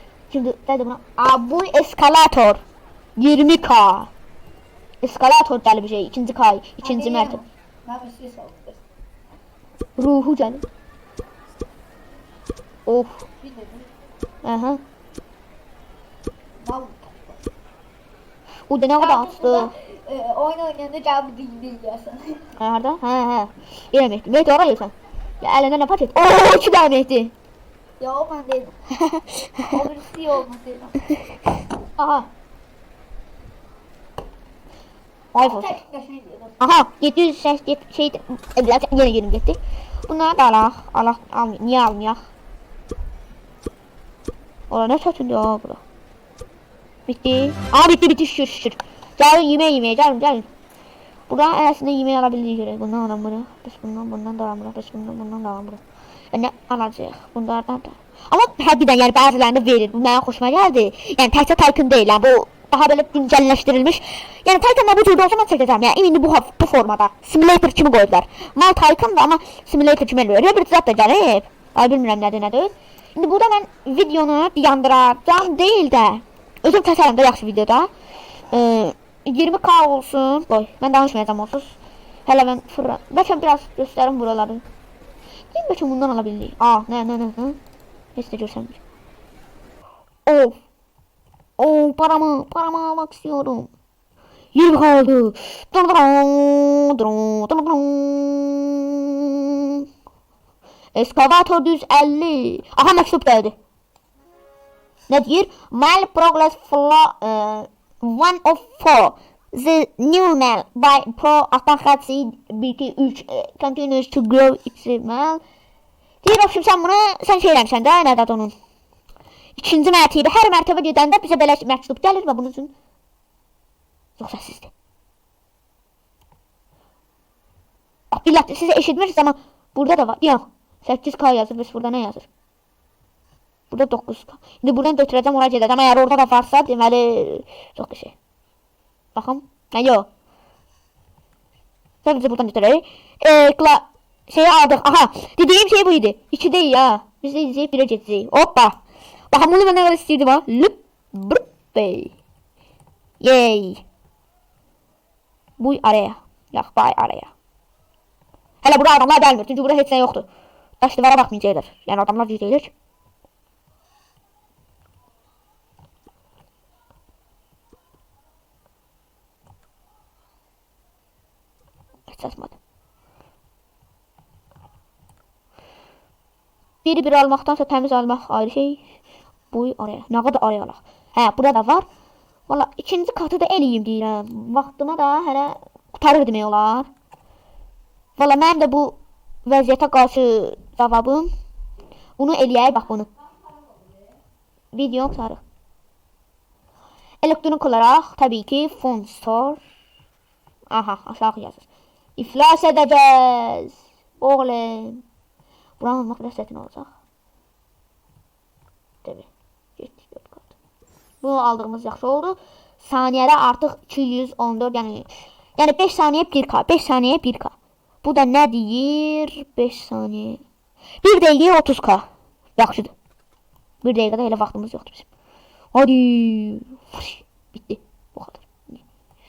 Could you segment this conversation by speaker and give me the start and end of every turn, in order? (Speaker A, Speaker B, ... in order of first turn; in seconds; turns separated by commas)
Speaker A: 0.3-2.6, Speaker A: 3.2-4.1, Speaker A: 5.0-7.4, Speaker B: 6.8-8.8, Speaker A: 10.0-10.6, Speaker A: 12.9-13.2, Speaker B: 13.4-13.9, Speaker A: 14.4-14.8, Speaker B: 16.6-17.4, Speaker A: 18.7-19.7, Speaker B: 19.0-22.5, Speaker A: 22.6-27.3, Speaker B: 28.0-28.8, Speaker A: 28.9-29.7, Speaker B: 29.6-31.4, Speaker A: 31.9-32.3, Speaker A: 35.3-35.8, Speaker B: 35.4-36.5, Speaker A: 36.6-42.2, Speaker A: 44.7-45.8, Speaker A: 47.1-50.5, Speaker A: 51.3-55.8, Speaker A: 56.3-77.9, Speaker A: 78.5-84.6, Speaker A: 85.5-87.6, Speaker A: 88.1-88.8, Speaker A: 90.2-90.6, Speaker A: 91.6-93.7, Speaker A: 94.5-99.9, Speaker A: 100.9-103.5, Speaker A: 105.1-115.4, Speaker A: 116.2-118.5, Speaker A: 119.5-122.7, Speaker A: 124.2-124.7, Speaker A: 128.1-132.3, Speaker A: 133.7-138.1, Speaker A: 139.1-140.1, Speaker A: 142.0-152.1, Speaker A: 153.2-153.8, Speaker A: 155.6-157.3, Speaker A: 158.6-160.3, Speaker A: 160.8-162.7, Speaker A: 172.1-172.6, Speaker A: 176.8-178.8, Speaker A: 179.5-181.8, Speaker A: 182.5-186.9, Speaker A: 188.2-191.3, Speaker A: 192.2-193.1, Speaker A: 194.7-195.4, Speaker A: 197.2-199.6, Speaker A: 200.7-201.7, Speaker A: 202.2-205.0, Speaker A: 205.8-206.9, Speaker A: 209.0-210.5, Speaker A: 211.2-220.4, Speaker A: 221.0-222.9, Speaker A: 223.8-225.1, Speaker A: 225.7-228.8